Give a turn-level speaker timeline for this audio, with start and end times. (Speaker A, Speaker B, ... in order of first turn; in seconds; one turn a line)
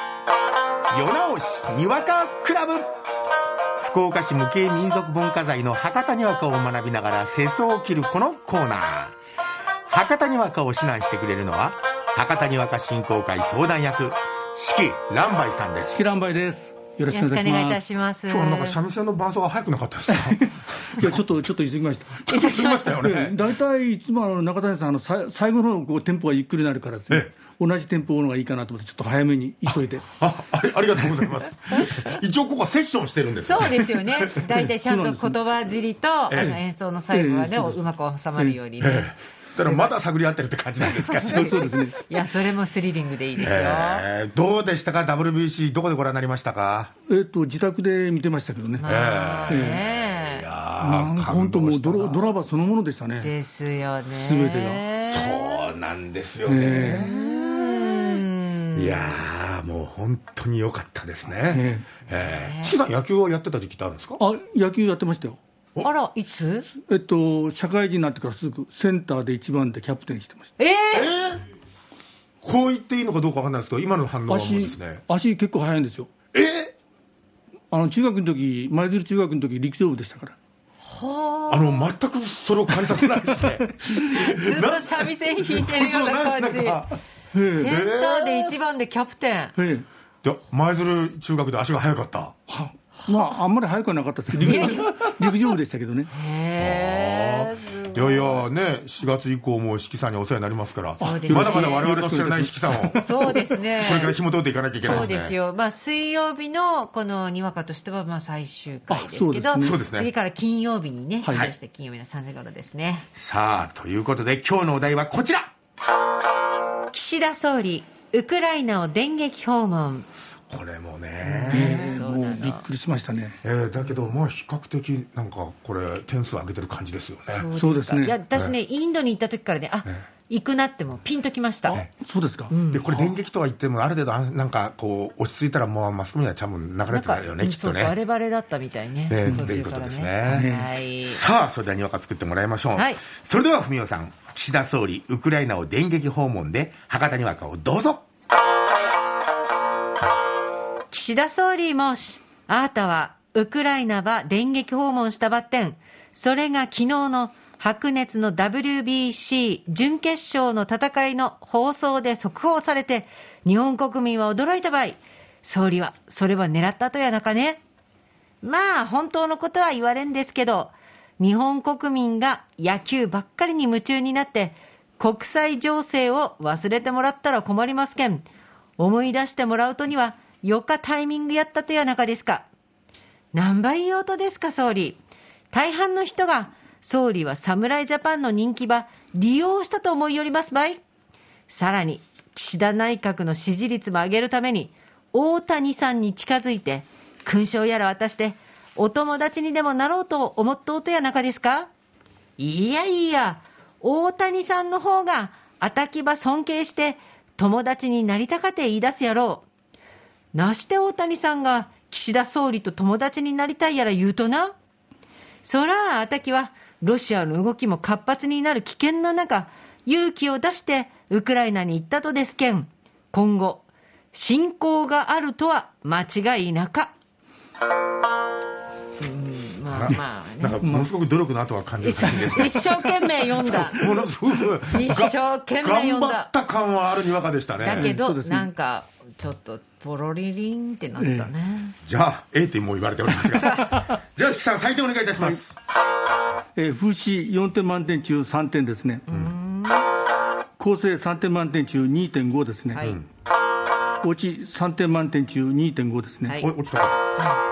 Speaker A: 0.9-2.9
Speaker A: 3.8-9.2
Speaker A: 9.9-16.0
Speaker B: 15.9-17.8
Speaker C: 17.1-18.8
Speaker A: 18.3-21.1
Speaker B: 20.2-22.3
Speaker A: 22.3-23.4
Speaker C: 22.3-23.1
Speaker B: 23.0-30.1
Speaker A: 30.2-34.5
Speaker C: 33.4-40.0
Speaker B: 34.8-35.4
Speaker A: 36.3-36.6
Speaker B: 36.3-36.6
Speaker B: 37.1-37.8
Speaker A: 38.8-41.6
Speaker C: 40.9-44.1
Speaker B: 41.2-42.0
Speaker A: 43.4-46.9
Speaker B: 47.1-48.9
Speaker C: 48.8-50.5
Speaker A: 48.8-52.3
Speaker B: 49.5-49.8
Speaker B: 50.8-53.3
Speaker C: 53.2-55.6
Speaker B: 54.2-54.8
Speaker A: 55.0-58.2
Speaker B: 56.5-57.1
Speaker C: 56.6-59.2
Speaker A: 58.8-64.2
Speaker B: 61.5-61.9
Speaker C: 62.1-62.8
Speaker B: 64.2-65.4
Speaker C: 65.8-66.7
Speaker B: 66.8-70.5
Speaker C: 70.6-71.1
Speaker A: 70.9-71.5
Speaker A: 72.4-75.0
Speaker B: 74.3-76.1
Speaker A: 76.3-76.7
Speaker B: 77.7-80.4
Speaker C: 80.8-81.9
Speaker A: 81.5-87.0
Speaker B: 82.9-84.0
Speaker C: 84.2-86.8
Speaker B: 87.3-87.8
Speaker C: 87.5-89.5
Speaker A: 87.6-88.5
Speaker B: 89.6-89.8
Speaker A: 90.2-92.3
Speaker B: 92.5-96.1
Speaker C: 94.4-95.0
Speaker C: 96.1-98.5
Speaker A: 96.6-105.3
Speaker C: 101.0-101.9
Speaker B: 101.0-103.5
Speaker C: 103.0-104.2
Speaker C: 104.8-113.1
Speaker B: 108.9-109.8
Speaker A: 109.6-110.1
Speaker B: 111.2-111.5
Speaker A: 113.2-115.5
Speaker C: 116.9-120.1
Speaker A: 120.5-122.0
Speaker C: 121.3-122.6
Speaker B: 121.5-123.4
Speaker A: 123.4-127.5
Speaker C: 127.3-131.8
Speaker B: 127.5-128.2
Speaker B: 131.8-133.1
Speaker C: 132.5-132.9
Speaker A: 132.7-137.9
Speaker C: 136.9-141.2
Speaker A: 139.1-140.5
Speaker B: 139.3-139.5
Speaker B: 140.3-140.7
Speaker A: 141.0-148.0
Speaker C: 142.8-143.0
Speaker C: 150.9-167.6
Speaker C: 168.4-178.3
Speaker C: 178.8-182.5
Speaker C: 183.3-185.0
Speaker C: 185.5-190.8
Speaker C: 191.5-201.7
Speaker C: 202.4-209.4
Speaker C: 210.3-214.5
Speaker C: 215.4-226.9
Speaker C: 229.0-230.6
Speaker A: 229.7-232.7
Speaker B: 230.6-230.9
Speaker C: 231.8-234.0
Speaker A: 233.4-237.9
Speaker C: 234.7-236.3
Speaker C: 237.6-241.8
Speaker B: 237.7-238.5
Speaker B: 241.0-241.3
Speaker A: 241.8-245.6
Speaker C: 243.4-243.8
Speaker B: 246.6-249.1
Speaker C: 249.1-249.9
Speaker B: 250.6-253.0
Speaker C: 252.7-253.0
Speaker B: 254.0-256.4
Speaker C: 256.3-256.5
Speaker A: 256.4-257.0
Speaker C: 257.2-257.4